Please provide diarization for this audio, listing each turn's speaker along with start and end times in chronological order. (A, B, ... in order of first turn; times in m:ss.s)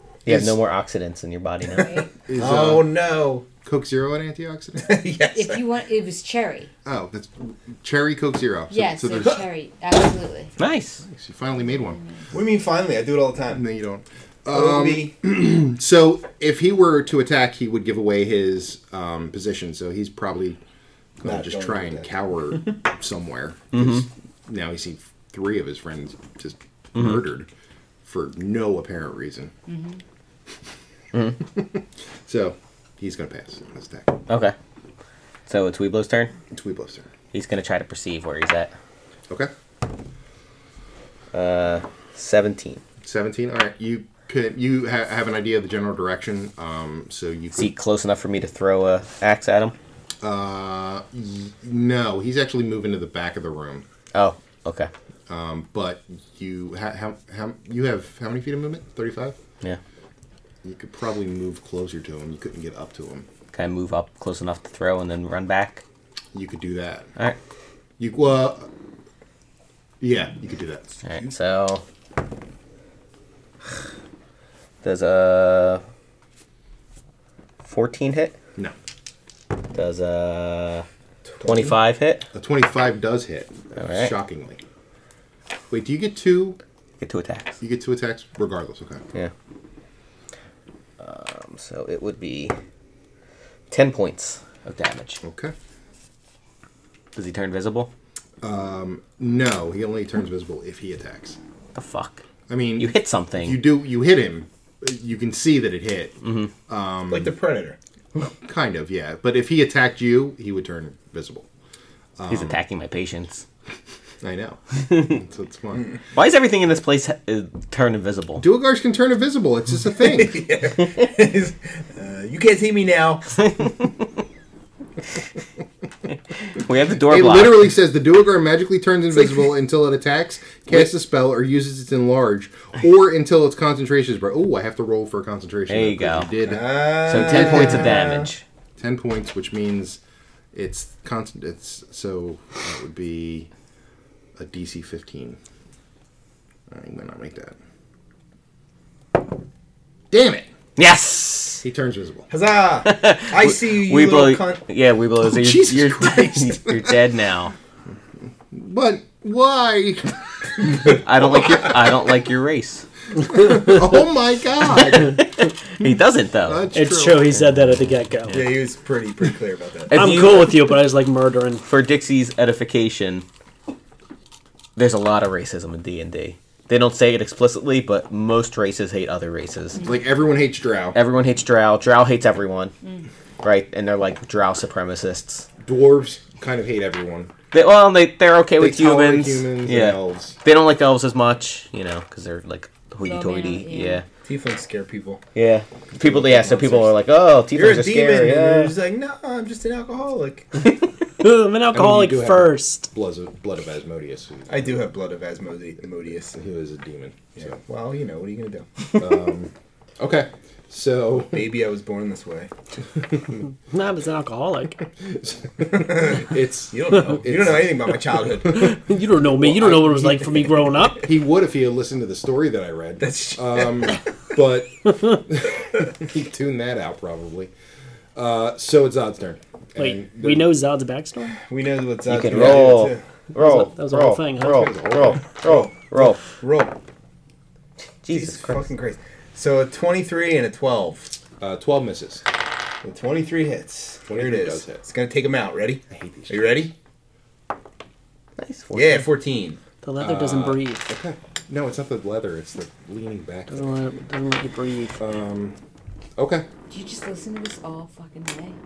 0:00.2-0:02.0 A
0:00.3-0:00.6 B
0:01.8-0:02.1 C
0:02.3-0:02.9 B
0:02.4-0:03.5 D
0:03.6-0:05.0 B
0:04.8-0:05.7 D
0:05.3-0:06.7 C
0:06.8-0:09.4 B
0:08.7-0:10.5 C
0:10.6-0:11.0 A
0:11.0-0:12.0 B
0:12.3-0:13.6 D
0:13.5-0:20.6 B
0:14.5-0:15.1 D
0:21.2-0:27.5 B
0:21.2-0:22.7 D
0:23.7-0:24.0 A
0:28.0-0:29.5 B
0:29.7-0:30.0 C
0:31.4-0:34.1 B
0:34.3-0:34.6 A
0:35.5-0:36.3 A
0:36.5-0:37.1 B
0:37.3-0:38.7 A
0:41.3-0:42.8 A
0:43.0-0:47.7 B
0:47.6-0:49.7 A
0:50.2-0:53.8 B
0:54.1-0:54.9 A
0:55.3-0:59.4 B
1:00.6-1:03.3 B
1:03.5-1:05.8 A
1:06.3-1:07.1 B
1:08.0-1:08.7 B
1:10.0-1:10.9 B
1:11.0-1:11.8 A
1:14.8-1:15.8 A
1:17.6-1:18.4 A
1:19.7-1:20.8 A
1:21.4-1:21.8 D
1:21.4-1:22.3 A
1:22.3-1:24.6 B
1:23.7-1:24.1 A
1:25.7-1:26.6 B
1:27.0-1:27.6 A
1:27.6-1:29.0 B
1:31.0-1:32.6 A
1:33.7-1:35.2 A
1:35.2-1:35.5 B
1:37.1-1:37.9 A
1:38.4-1:41.4 B
1:41.7-1:42.2 A
1:42.5-1:47.3 B
1:42.8-1:43.6 A
1:47.1-1:47.8 D
1:48.2-1:51.4 B
1:52.2-1:52.6 B
1:52.3-1:53.4 A
1:54.2-1:55.9 B
1:54.7-1:55.2 A
1:56.1-1:58.4 A
1:58.4-2:00.4 B
2:00.0-2:03.4 D
2:03.4-2:03.7 A
2:06.5-2:07.8 A
2:07.0-2:17.8 B
2:15.7-2:16.3 A
2:16.4-2:18.3 D
2:17.0-2:18.4 A
2:18.8-2:20.0 B
2:20.5-2:23.5 B
2:24.4-2:25.4 B
2:26.7-2:27.6 B
2:30.1-2:30.5 B
2:30.8-2:31.6 A
2:31.6-2:32.3 B
2:32.3-2:34.7 D
2:32.8-2:37.5 A
2:35.2-2:37.0 B
2:38.5-2:40.1 B
2:41.0-2:42.9 A
2:43.3-2:45.2 B
2:44.8-2:46.7 A
2:46.4-2:47.4 B
2:46.7-2:48.4 E
2:48.3-2:50.0 D
2:49.9-2:50.7 A
2:49.9-2:51.6 E
2:51.6-2:53.2 A
2:54.8-2:59.8 A
2:59.8-3:01.0 B
3:00.9-3:02.7 A
3:03.4-3:05.5 A
3:05.6-3:07.3 B
3:07.5-3:14.0 A
3:08.6-3:10.4 B
3:13.0-3:14.0 C
3:14.2-3:15.2 D
3:15.4-3:18.8 A
3:16.0-3:16.9 D
3:17.5-3:20.7 D
3:21.2-3:22.9 E
3:21.7-3:24.8 B
3:24.5-3:26.4 D
3:26.3-3:27.6 B
3:27.4-3:29.0 D
3:28.9-3:31.5 B
3:31.2-3:32.5 D
3:33.7-3:34.8 E
3:35.0-3:37.9 B
3:35.6-3:38.7 D
3:38.5-3:41.1 E
3:39.4-3:40.4 B
3:41.0-3:47.5 B
3:43.0-3:44.0 D
3:48.2-3:50.5 B
3:49.8-3:51.4 E
3:51.4-3:53.0 D
3:52.0-3:56.2 A
3:53.4-3:54.8 E
3:54.8-3:56.8 D
3:58.0-3:58.7 A
3:58.1-4:01.2 D
4:01.4-4:02.2 B
4:02.8-4:06.7 D
4:04.1-4:04.8 B
4:05.9-4:06.7 B
4:08.4-4:09.1 A
4:08.7-4:09.6 D
4:09.8-4:10.9 E
4:10.0-4:13.7 B
4:13.5-4:15.0 E
4:15.0-4:15.6 B
4:16.2-4:16.4 B
4:16.7-4:18.6 C